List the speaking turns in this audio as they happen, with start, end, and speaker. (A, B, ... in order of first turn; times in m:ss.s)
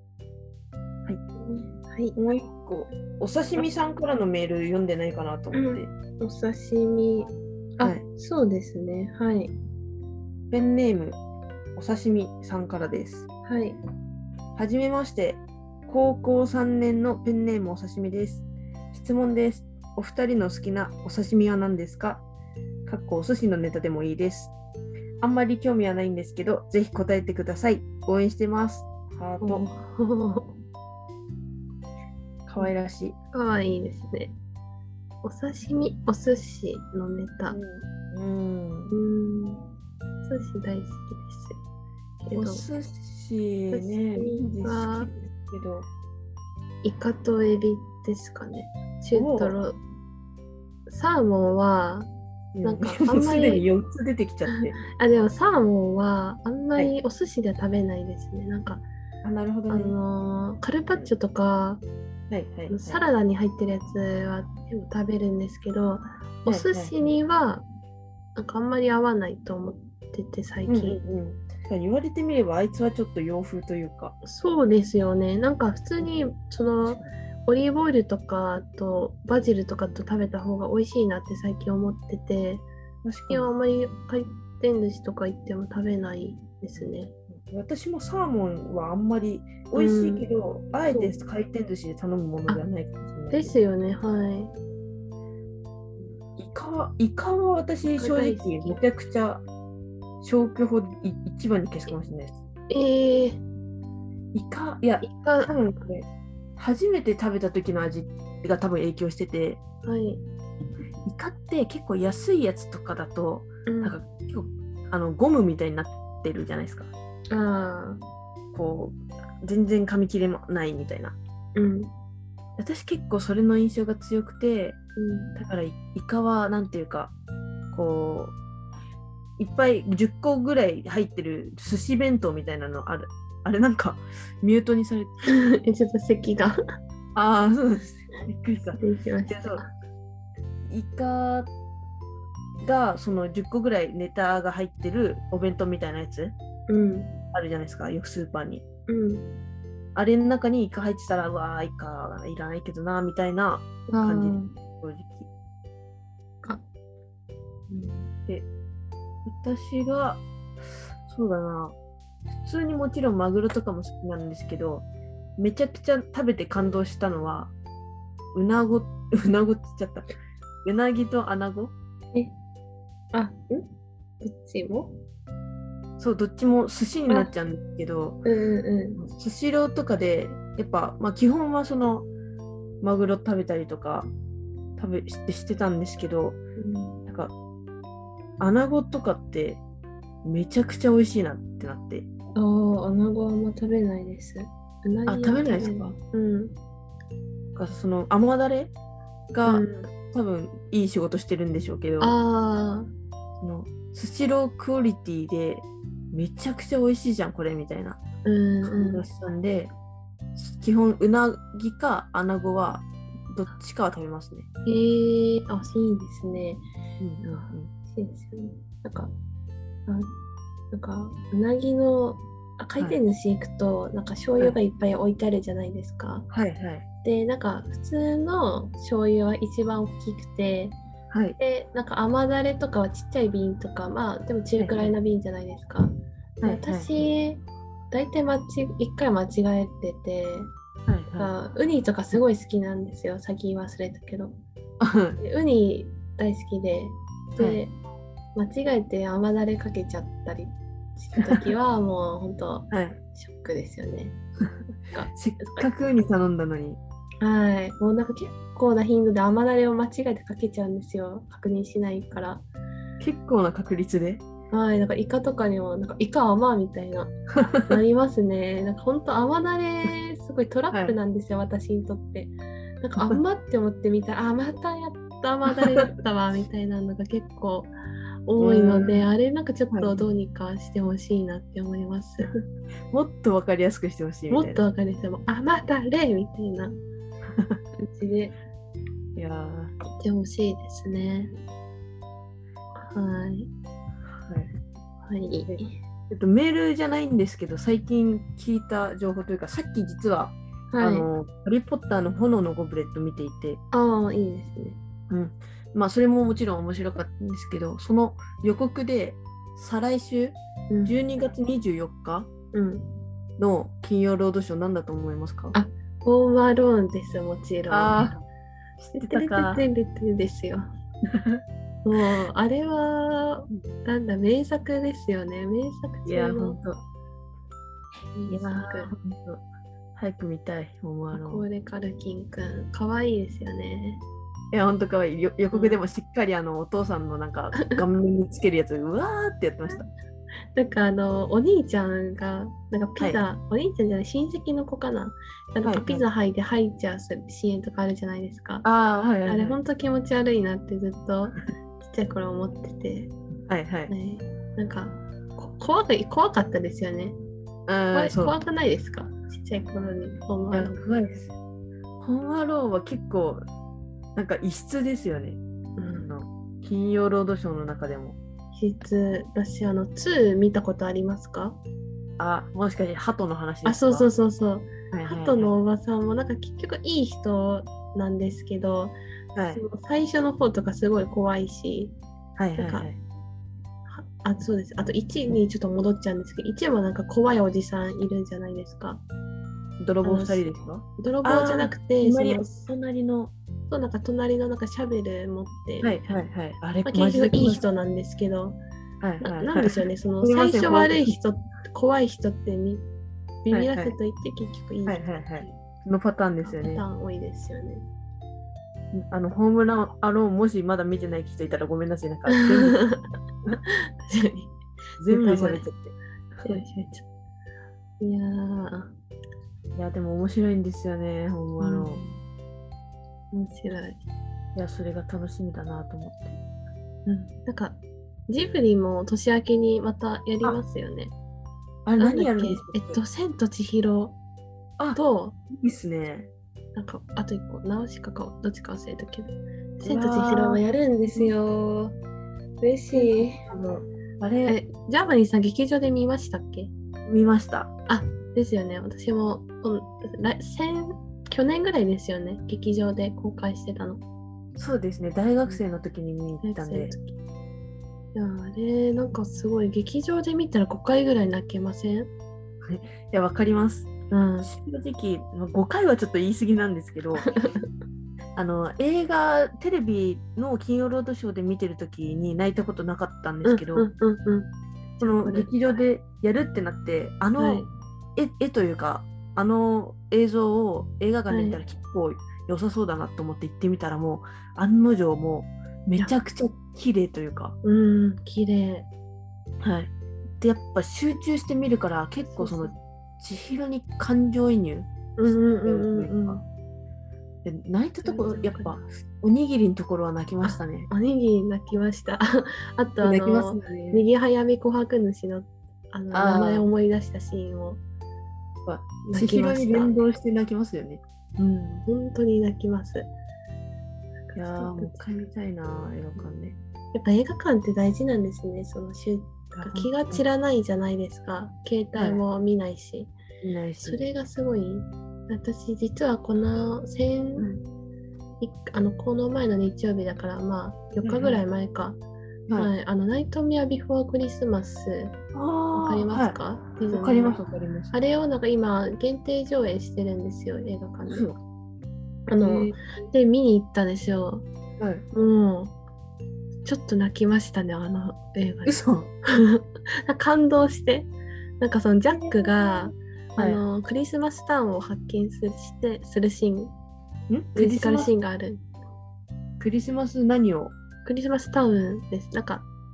0:01.4-0:02.2 A
0:02.2-0:05.9 B
0:05.5-0:09.5 A
0:10.5-0:11.2 B
0:11.8-0:13.3 B
0:13.5-0:13.8 A
0:14.6-0:22.2 B
0:22.9-0:24.5 B
0:25.2-0:29.7 B
0:29.4-0:30.6 A
0:32.5-0:33.2 B
0:33.3-0:34.4 A
0:35.2-0:37.6 A
0:37.5-0:38.9 B
0:38.9-0:39.7 A
0:40.2-0:41.6 A
0:42.2-0:42.7 A
0:42.3-0:45.9 B
0:43.7-0:45.1 A
0:46.8-0:49.8 A
0:49.1-0:49.6 B
0:50.9-0:52.1 A
0:52.5-0:54.8 B
0:52.6-0:53.6 A
0:54.6-0:58.8 A
0:59.2-1:00.0 B
0:59.7-1:01.8 A
1:02.3-1:03.0 B
1:02.7-1:07.6 A
1:06.5-1:06.9 B
1:08.4-1:11.0 A
1:10.7-1:14.2 B
1:14.2-1:22.7 A
1:23.0-1:23.5 B
1:23.3-1:27.1 A
1:26.8-1:33.6 B
1:29.8-1:30.3 A
1:30.9-1:31.2 A
1:33.3-1:34.5 A
1:36.4-1:39.4 B
1:37.9-1:38.8 A
1:40.2-1:42.4 B
1:42.7-1:43.4 A
1:44.3-1:49.6 B
1:45.0-1:45.5 A
1:49.8-1:50.2 A
1:51.0-1:56.9 B
1:53.7-1:54.0 A
1:57.3-1:58.0 A
1:58.5-2:01.2 B
2:01.6-2:01.9 A
2:02.6-2:04.8 B
2:05.0-2:05.4 A
2:05.4-2:07.1 B
2:07.7-2:08.4 B
2:09.4-2:15.1 B
2:15.3-2:16.6 A
2:17.2-2:19.6 B
2:18.8-2:19.7 A
2:20.7-2:21.5 B
2:22.6-2:26.4 B
2:26.7-2:27.2 A
2:27.3-2:28.6 B
2:28.9-2:29.4 A
2:30.0-2:35.3 B
2:33.9-2:34.6 A
2:37.7-2:38.1 A
2:39.2-2:40.2 B
2:41.1-2:41.8 B
2:42.3-2:44.9 B
2:45.4-2:47.5 B
2:48.3-2:51.7 B
2:53.1-2:53.7 A
2:54.2-2:55.0 A
2:56.0-2:58.2 B
2:58.2-2:59.0 A
2:59.0-3:02.1 B
3:02.8-3:04.1 B
3:04.8-3:06.4 B
3:06.6-3:07.0 A
3:07.1-3:07.3 B
3:08.4-3:09.6 B
3:10.2-3:12.1 B
3:12.4-3:16.6 A
3:15.1-3:16.0 B
3:17.5-3:18.7 B
3:19.3-3:22.2 B
3:19.5-3:19.9 A
3:22.0-3:22.9 A
3:23.4-3:28.0 B
3:28.2-3:29.0 A
3:28.6-3:29.7 B
3:30.4-3:34.5 B
3:34.7-3:36.6 A
3:37.0-3:37.7 B
3:37.3-3:39.1 A
3:39.9-3:40.1 A
3:40.7-3:46.3 A
3:46.3-3:46.8 B
3:47.0-3:50.8 A
3:51.1-3:51.4 B
3:51.4-4:00.5 A
3:54.6-3:54.9 B
3:56.4-3:56.9 B
4:00.9-4:01.3 B
4:01.2-4:04.3 A
4:04.8-4:05.2 B
4:05.2-4:07.7 A
4:07.4-4:07.6 B
4:08.4-4:14.2 A
4:12.7-4:13.0 B
4:14.9-4:15.7 A
4:15.1-4:16.8 B
4:17.2-4:22.4 A
4:23.0-4:24.2 B
4:24.5-4:37.7 A
4:30.7-4:31.0 B
4:38.3-4:42.4 A
4:38.4-4:39.1 B
4:39.7-4:40.0 B
4:42.9-4:44.6 B
4:44.3-4:46.7 A
4:47.3-4:47.6 B
4:47.8-4:48.4 A
4:49.2-4:49.7 B
4:50.0-4:51.3 A
4:52.8-4:53.5 A
4:54.2-4:54.5 B
4:55.0-4:55.8 A
4:55.5-5:03.6 B
5:00.7-5:01.1 A
5:03.7-5:04.8 A
5:05.1-5:12.3 B
5:10.7-5:11.0 A
5:12.5-5:13.0 A
5:13.4-5:15.6 B
5:15.5-5:18.1 A
5:17.7-5:18.2 B
5:18.8-5:19.6 B
5:18.9-5:20.6 A
5:21.1-5:21.4 B
5:21.8-5:26.6 A
5:26.1-5:26.8 B
5:28.1-5:28.9 A
5:28.3-5:29.4 B
5:30.0-5:31.5 B
5:31.1-5:34.0 A
5:34.5-5:39.8 B
5:35.5-5:35.8 A
5:40.6-5:48.7 A
5:45.6-5:46.0 B
5:48.6-5:49.6 B
5:49.3-5:53.1 A
5:53.5-5:53.9 B
5:53.9-5:57.2 A
5:57.7-5:58.4 B
5:57.9-6:00.8 A
6:00.5-6:01.3 B
6:02.0-6:03.5 B
6:04.2-6:08.2 B
6:05.8-6:06.1 A
6:08.5-6:11.6 A
6:12.2-6:14.1 B
6:13.6-6:19.0 A
6:14.9-6:15.5 B
6:19.4-6:19.6 B
6:19.5-6:22.0 A
6:22.4-6:23.0 B
6:22.6-6:22.9 A
6:23.9-6:29.0 A
6:29.8-6:33.3 B
6:30.0-6:32.6 A
6:33.7-6:36.2 A
6:35.8-6:37.6 B
6:36.8-6:38.6 A
6:39.0-6:41.2 B
6:39.2-6:42.8 A
6:43.4-6:45.6 A
6:43.5-6:44.0 B
6:44.9-6:46.8 B
6:46.4-6:47.8 A
6:48.9-6:52.8 B
6:52.3-6:53.0 A
6:53.6-6:54.6 A
6:55.0-6:56.6 B
6:55.1-6:55.7 A
6:56.4-6:57.1 A
6:58.0-6:58.9 A
6:59.7-7:02.0 B
7:01.6-7:02.2 A
7:03.3-7:04.0 A
7:04.6-7:06.4 B
7:07.1-7:11.1 A
7:11.9-7:13.0 B
7:12.0-7:14.2 A
7:15.0-7:15.4 A
7:15.5-7:16.3 B
7:16.8-7:22.0 A
7:19.8-7:20.6 B
7:22.6-7:23.5 A
7:22.9-7:24.6 B
7:24.5-7:26.7 A
7:27.1-7:27.7 B
7:27.9-7:34.0 A
7:34.6-7:37.0 B
7:36.4-7:37.2 A
7:38.2-7:42.1 A
7:42.6-7:47.3 B
7:44.1-7:44.5 A
7:47.3-7:47.6 A
7:48.4-7:53.9 B
7:53.4-7:55.5 A
7:55.0-7:57.6 B
7:57.4-7:57.7 A
7:58.2-8:07.6 B
8:01.3-8:01.6 A
8:07.6-8:08.9 A
8:09.6-8:16.4 B
8:12.3-8:12.8 A
8:15.2-8:16.4 A
8:17.4-8:20.9 B
8:18.0-8:18.8 A
8:20.4-8:27.8 A
8:23.0-8:24.0 B
8:26.1-8:26.7 B
8:28.6-8:31.0 B
8:29.0-8:30.0 A
8:31.4-8:33.1 A
8:34.3-8:35.0 A
8:34.4-8:36.6 B
8:36.9-8:43.1 A
8:39.6-8:40.2 B
8:42.0-8:42.2 B
8:43.4-8:44.0 B
8:43.8-8:47.5 A
8:48.4-8:52.0 A
8:51.0-8:51.4 B
8:52.5-8:55.2 A
8:55.3-8:57.9 B
8:55.7-9:01.3 A
9:01.1-9:01.4 B
9:02.3-9:04.5 A
9:02.4-9:02.8 B
9:04.8-9:05.0 B
9:05.1-9:05.8 A
9:06.6-9:16.7 A
9:08.6-9:09.1 B
9:12.1-9:13.6 B
9:17.3-9:18.1 B
9:17.6-9:18.6 A
9:19.6-9:20.7 B
9:21.0-9:22.7 A